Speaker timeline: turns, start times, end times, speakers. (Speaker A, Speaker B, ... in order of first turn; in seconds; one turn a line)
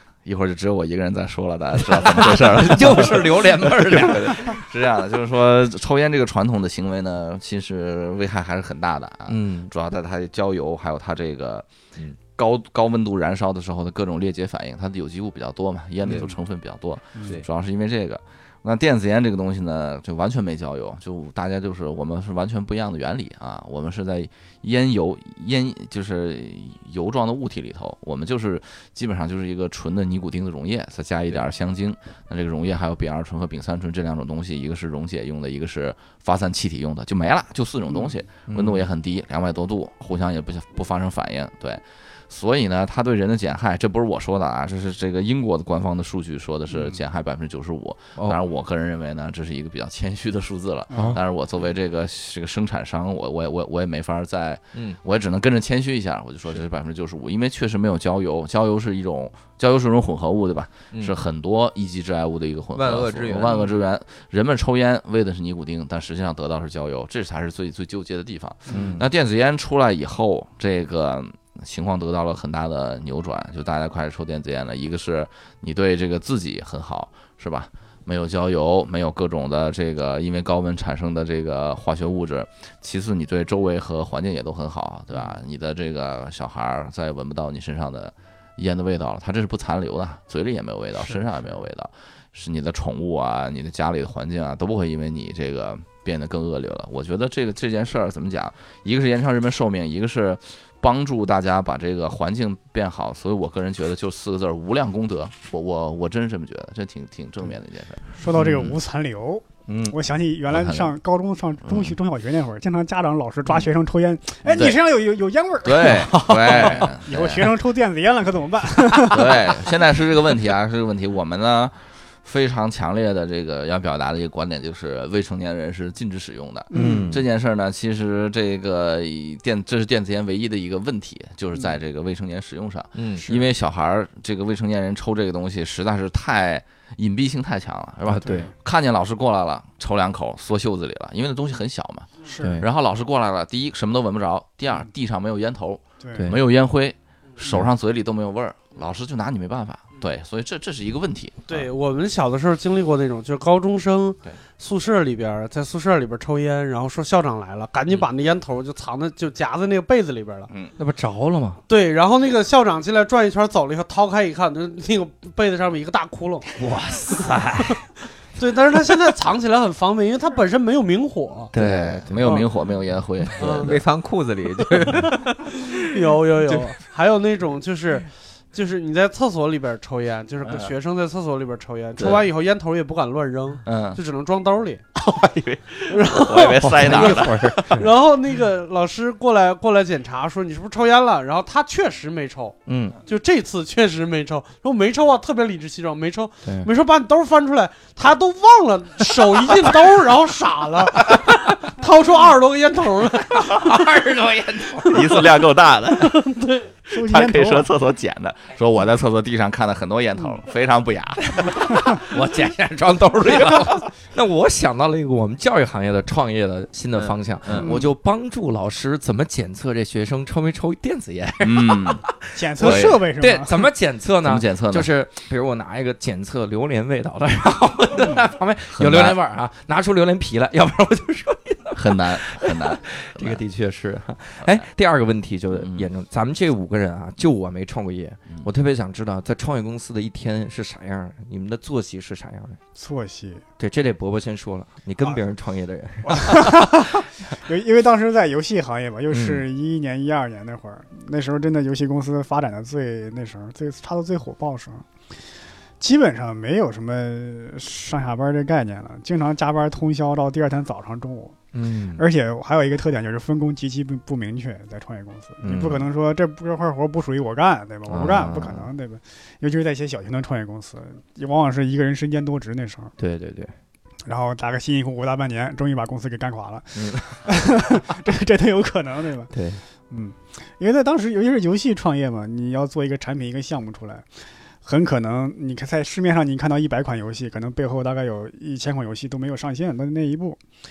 Speaker A: 0.2-11.7
Speaker B: 1.9-4.6
Speaker B: 9.3-9.7
Speaker A: 12.4-108.8
Speaker C: 16.0-16.3
Speaker B: 38.5-38.9
Speaker B: 50.9-51.2
Speaker C: 60.9-61.2
Speaker C: 62.8-63.7
Speaker B: 68.7-69.0
Speaker D: 108.2-119.7
Speaker B: 109.7-110.0
Speaker A: 110.5-110.9
Speaker A: 111.7-112.0
Speaker A: 114.5-114.8
Speaker A: 115.6-117.6
Speaker A: 119.1-151.7
Speaker D: 126.7-127.1
Speaker B: 126.7-127.3
Speaker C: 132.9-133.3
Speaker B: 138.1-138.5
Speaker D: 138.2-138.5
Speaker D: 142.2-142.6
Speaker B: 142.4-142.7
Speaker D: 146.0-146.3
Speaker B: 146.1-146.4
Speaker E: 151.5-160.5
Speaker B: 160.8-161.6
Speaker E: 161.7-166.5
Speaker B: 166.6-167.8
Speaker E: 168.4-171.5
Speaker B: 171.5-172.3
Speaker A: 171.6-173.8
Speaker E: 173.4-173.8
Speaker C: 173.6-175.7
Speaker E: 175.7-184.8
Speaker A: 180.4-180.7
Speaker A: 182.0-182.2
Speaker A: 183.7-184.0
Speaker A: 185.0-187.8
Speaker E: 185.9-203.8
Speaker B: 186.4-187.9
Speaker B: 192.7-193.0
Speaker B: 203.4-205.3
Speaker A: 204.8-206.2
Speaker E: 206.0-206.8
Speaker D: 206.9-207.7
Speaker A: 207.0-212.0
Speaker B: 212.0-242.6
Speaker C: 217.0-217.7
Speaker D: 217.6-217.9
Speaker A: 221.4-222.1
Speaker D: 222.3-223.7
Speaker A: 222.6-223.0
Speaker A: 224.2-224.9
Speaker A: 228.7-229.2
Speaker A: 231.8-233.4
Speaker A: 235.5-235.9
Speaker D: 242.8-243.4
Speaker B: 243.6-246.7
Speaker D: 246.1-254.9
Speaker B: 249.1-249.4
Speaker D: 255.8-261.4
Speaker B: 261.5-262.0
Speaker D: 261.9-272.9
Speaker B: 265.4-265.9
Speaker B: 267.9-268.7
Speaker B: 273.0-273.5
Speaker D: 274.1-279.3
Speaker B: 276.8-277.2
Speaker B: 279.3-279.6
Speaker D: 279.9-284.1
Speaker D: 284.6-290.4